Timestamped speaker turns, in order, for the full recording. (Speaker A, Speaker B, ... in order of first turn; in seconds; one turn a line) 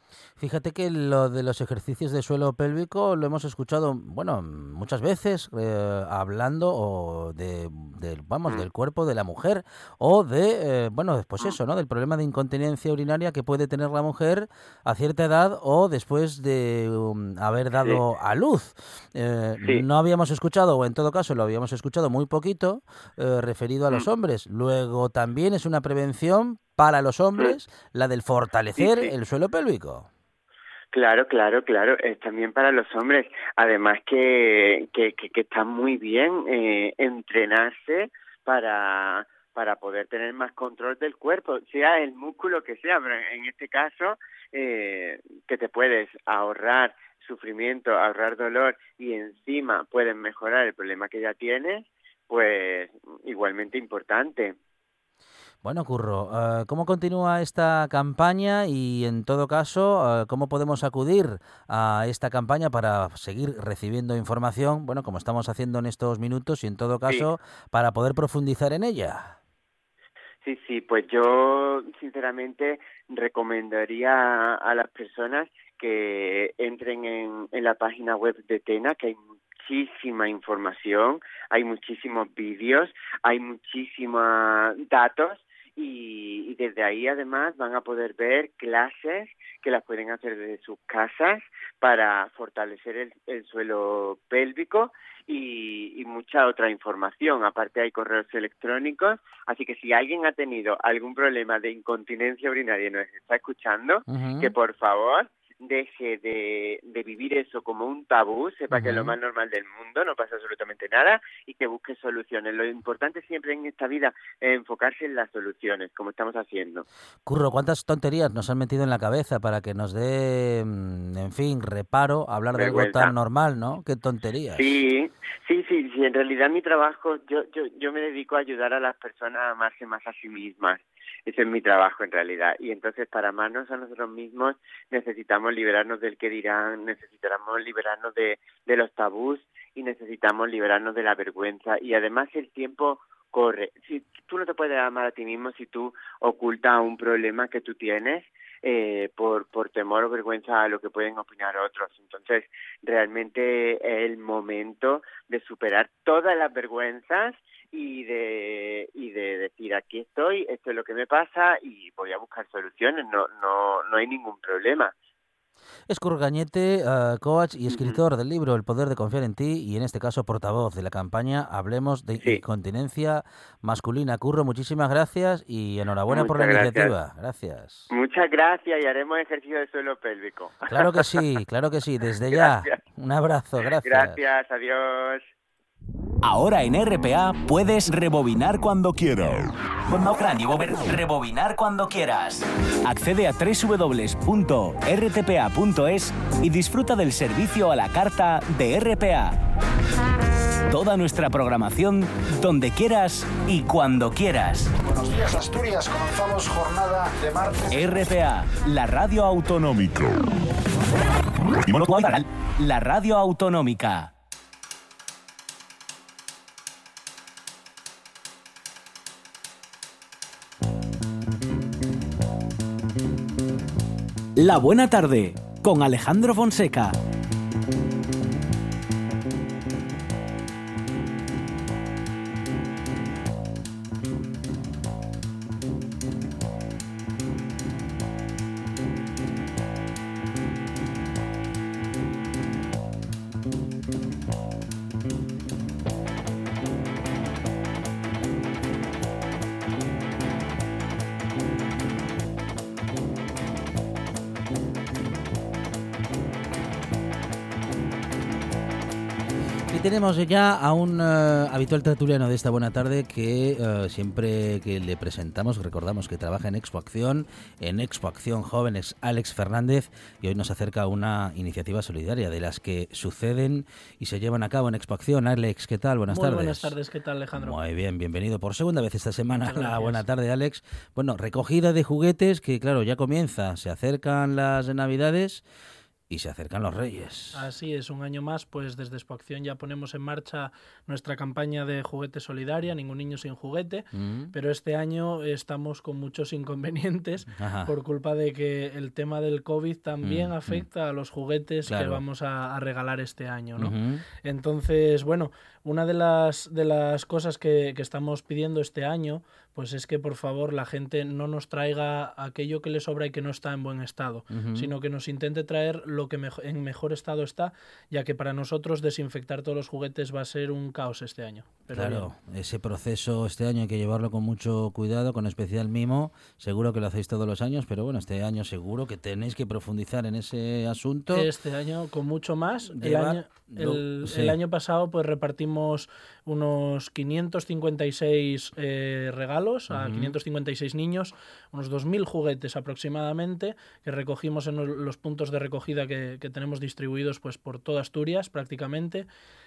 Speaker A: 0.4-30.1
Speaker B: 28.8-29.1
Speaker B: 30.9-54.6
Speaker A: 55.6-69.4
Speaker B: 70.4-116.8
Speaker A: 104.1-104.5
Speaker A: 108.7-109.2
Speaker A: 117.3-124.8
Speaker B: 122.5-123.1
Speaker B: 124.5-164.9
Speaker A: 165.9-177.9
Speaker B: 167.7-168.0
Speaker B: 176.1-176.9
Speaker B: 177.9-181.2
Speaker A: 180.7-184.2
Speaker B: 182.3-182.8
Speaker B: 183.8-185.3
Speaker C: 186.2-199.4
Speaker C: 200.7-204.7
Speaker D: 204.8-207.8
Speaker C: 207.7-210.1
Speaker C: 211.7-214.1
Speaker C: 224.4-226.9
Speaker A: 259.7-276.7
Speaker E: 276.1-277.6
Speaker A: 277.4-285.4
Speaker E: 279.4-280.0
Speaker A: 286.1-287.4
Speaker E: 287.3-322.1
Speaker A: 293.9-294.3
Speaker A: 297.4-297.7
Speaker A: 300.0-300.7
Speaker A: 301.7-302.0
Speaker A: 303.6-304.0
Speaker A: 314.3-314.7
Speaker A: 321.7-331.3
Speaker E: 331.1-349.1
Speaker A: 332.7-334.4
Speaker A: 339.7-340.1